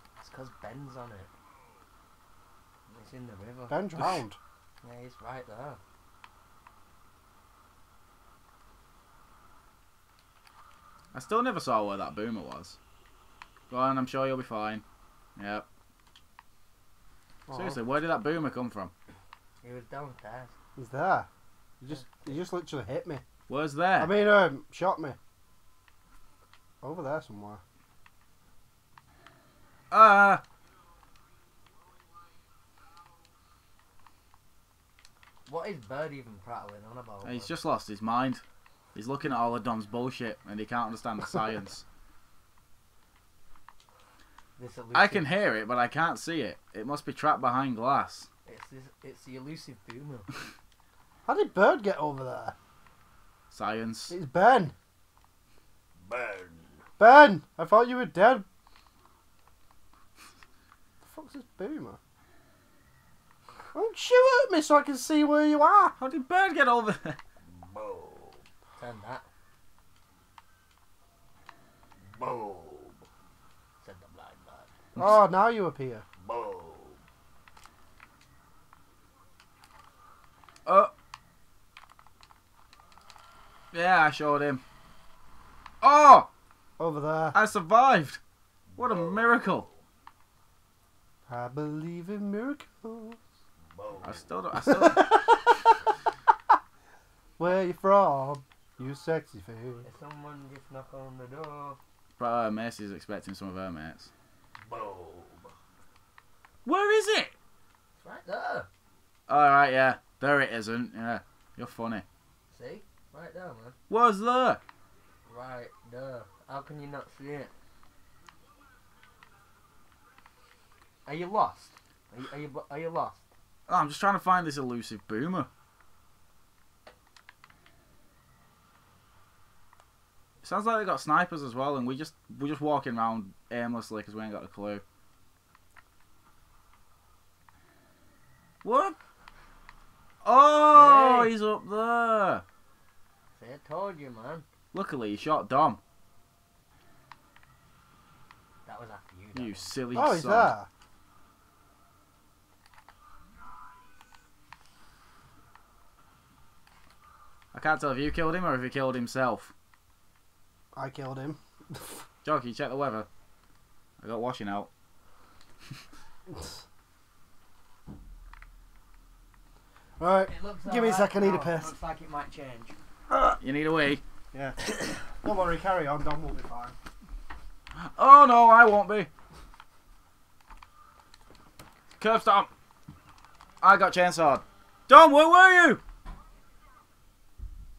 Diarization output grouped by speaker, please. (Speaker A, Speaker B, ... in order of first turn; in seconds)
Speaker A: 0.2-1.3, 2.9-3.8, 4.8-5.8, 19.6-20.5, 21.9-22.4, 35.5-37.5, 44.6-45.2, 48.5-50.3, 56.0-56.8, 67.5-69.2, 72.1-73.0, 73.8-74.7, 76.2-77.0, 88.8-89.7, 93.8-94.3, 99.8-101.8, 104.7-105.5, 108.0-108.7, 112.5-113.7, 115.3-117.5, 121.0-123.2, 140.7-141.3, 143.4-144.4, 148.7-149.7, 170.3-172.7
Speaker B: 3.7-4.4, 20.8-21.3, 21.8-23.2, 24.0-25.2, 26.8-27.6, 51.2-52.5, 54.1-54.7, 57.0-58.5, 61.0-62.0, 63.7-65.9, 75.0-76.0, 86.8-87.4, 91.3-93.2, 94.6-95.7, 97.4-99.8, 149.9-150.7, 160.7-162.0, 170.0-171.7, 174.3-174.6, 175.2-176.7
Speaker C: 11.1-12.8, 13.7-14.8, 15.3-15.7, 17.5-18.9, 23.5-24.1, 29.9-30.4, 37.2-38.4, 38.9-41.8, 44.9-48.3, 53.5-54.1, 66.0-67.2, 80.7-80.9, 83.7-84.6, 85.8-86.3, 87.3-88.2, 88.8-89.7, 94.0-95.3, 102.2-104.1, 106.6-107.3, 109.3-112.0, 113.9-114.6, 123.7-125.5, 130.4-134.8, 138.6-138.9, 140.2-142.4, 144.7-145.8, 149.3-150.5, 157.5-159.5, 162.2-163.1, 164.0-164.7, 173.4-174.0, 177.8-179.1, 182.0-182.5, 183.6-185.8